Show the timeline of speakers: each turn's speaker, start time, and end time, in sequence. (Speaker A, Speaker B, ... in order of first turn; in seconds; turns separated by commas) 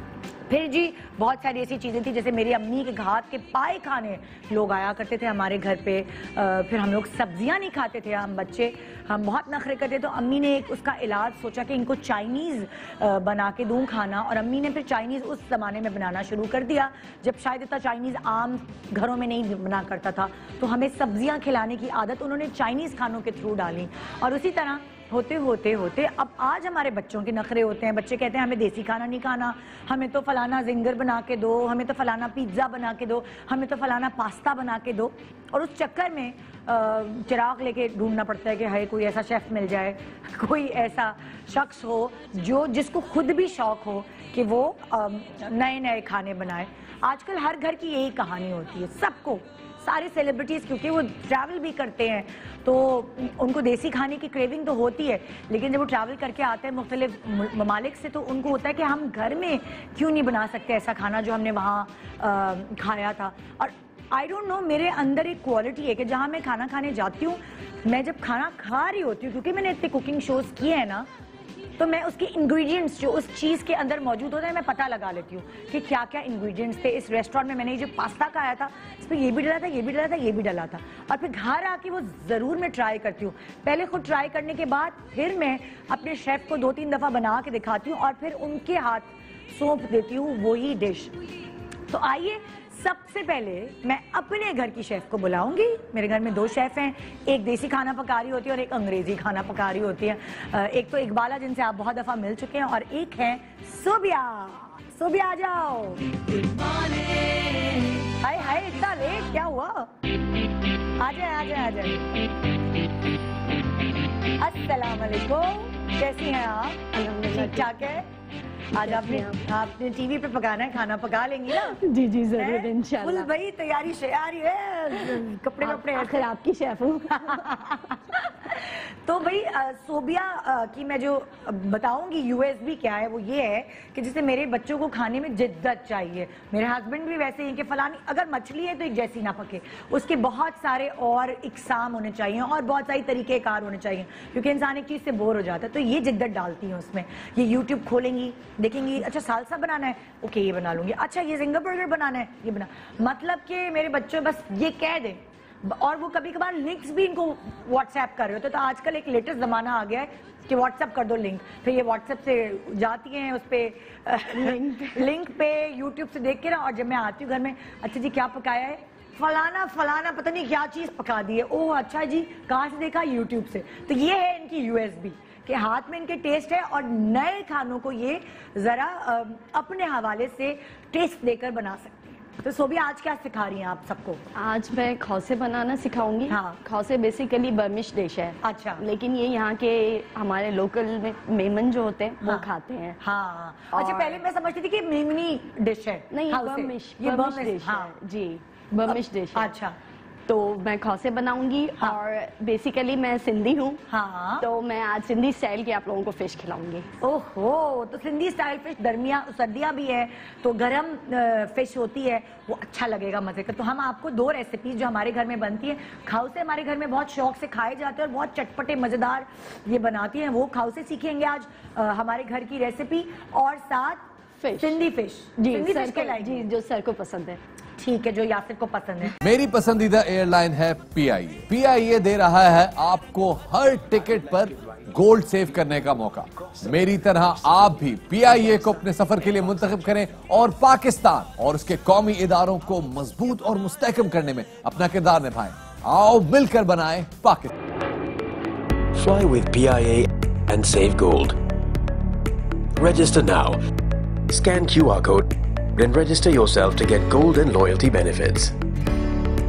Speaker A: 0.5-71.1, Speaker A: 71.8-91.1, Speaker A: 91.9-109.9, Speaker A: 111.0-112.1, Speaker A: 114.4-118.0, Speaker B: 116.9-118.0, Speaker A: 118.7-121.8, Speaker B: 118.8-119.4, Speaker B: 121.5-123.3, Speaker A: 122.4-126.2, Speaker B: 124.9-127.8, Speaker A: 127.2-184.2, Speaker B: 164.3-165.1, Speaker B: 184.3-193.0, Speaker A: 186.3-186.6, Speaker A: 188.4-188.8, Speaker A: 193.0-197.9, Speaker B: 193.7-194.2, Speaker B: 196.1-199.5, Speaker A: 198.9-199.8, Speaker B: 200.3-203.8, Speaker A: 203.9-204.4, Speaker B: 204.4-206.9, Speaker A: 207.0-224.1, Speaker B: 224.4-224.8, Speaker A: 224.6-226.4, Speaker B: 225.4-227.4, Speaker A: 227.8-229.2, Speaker C: 229.2-247.5, Speaker D: 248.9-251.4, Speaker D: 252.8-253.6, Speaker D: 254.3-258.5